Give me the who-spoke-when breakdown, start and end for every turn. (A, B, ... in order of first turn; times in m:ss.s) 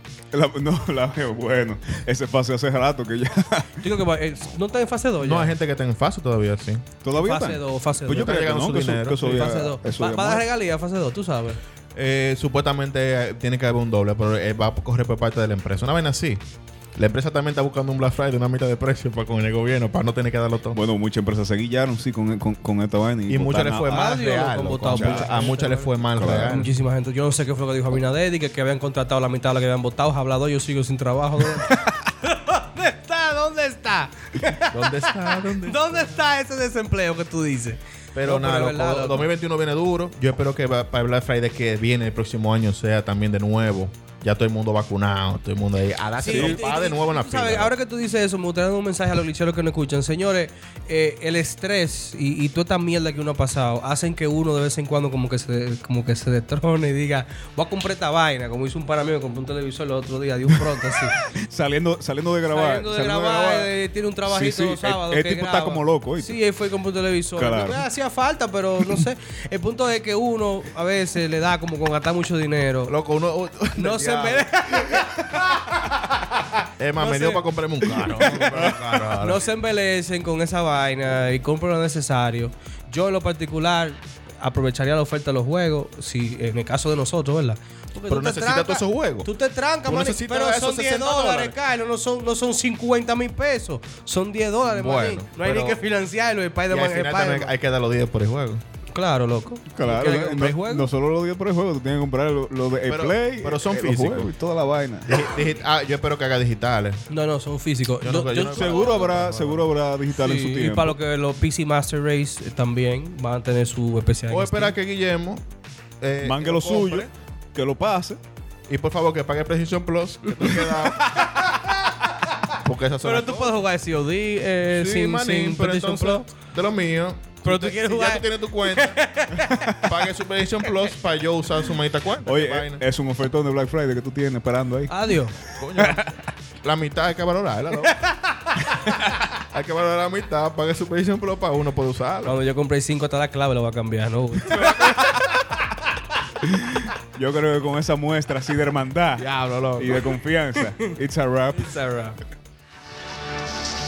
0:00.3-0:04.0 A
0:03.8-0:05.6 B
0:05.2-0:06.8 C
0:07.0-0:10.4 A
0:07.2-0:08.4 B
0:08.1-0:09.2 C
0:09.2-0:11.6 B
0:12.0-0:16.4 C
0:17.0-0:20.8 C
0:20.7-0:24.2 A
0:23.3-0:26.8 C
0:23.8-0:39.3 B
0:24.9-0:25.3 A
0:26.2-0:26.7 A
0:34.7-0:36.2 C
0:38.2-0:47.7 C
0:46.2-1:01.2 B
0:46.3-0:46.6 A
1:00.5-1:03.7 A
1:02.5-1:12.9 B
1:04.2-1:06.4 A
1:07.4-1:07.8 A
1:12.9-1:14.5 C
1:13.8-1:16.0 B
1:16.8-1:19.4 C
1:17.0-1:37.5 B
1:28.1-1:29.3 C
1:29.9-1:31.6 C
1:34.6-1:35.8 C
1:36.7-1:38.6 C
1:38.9-1:40.9 B
1:39.7-1:45.4 A
1:42.9-1:44.3 C
1:45.1-1:47.0 C
1:47.1-1:49.1 B
1:48.0-1:49.7 C
1:48.5-1:51.0 A
1:50.2-1:54.8 B
1:54.3-1:55.4 C
1:56.0-1:57.1 C
1:56.2-1:58.2 A
1:58.7-2:01.6 C
2:00.4-2:06.3 B
2:02.6-2:03.6 C
2:04.7-2:09.0 C
2:07.4-2:09.8 B
2:09.4-2:09.9 A
2:09.8-2:12.8 C
2:12.2-2:15.1 A
2:14.9-2:15.4 B
2:15.6-2:18.0 C
2:17.8-2:18.6 B
2:18.9-2:22.4 C
2:22.2-2:25.3 B
2:24.5-2:25.2 C
2:26.4-2:31.7 A
2:29.2-2:30.1 C
2:31.5-2:32.2 B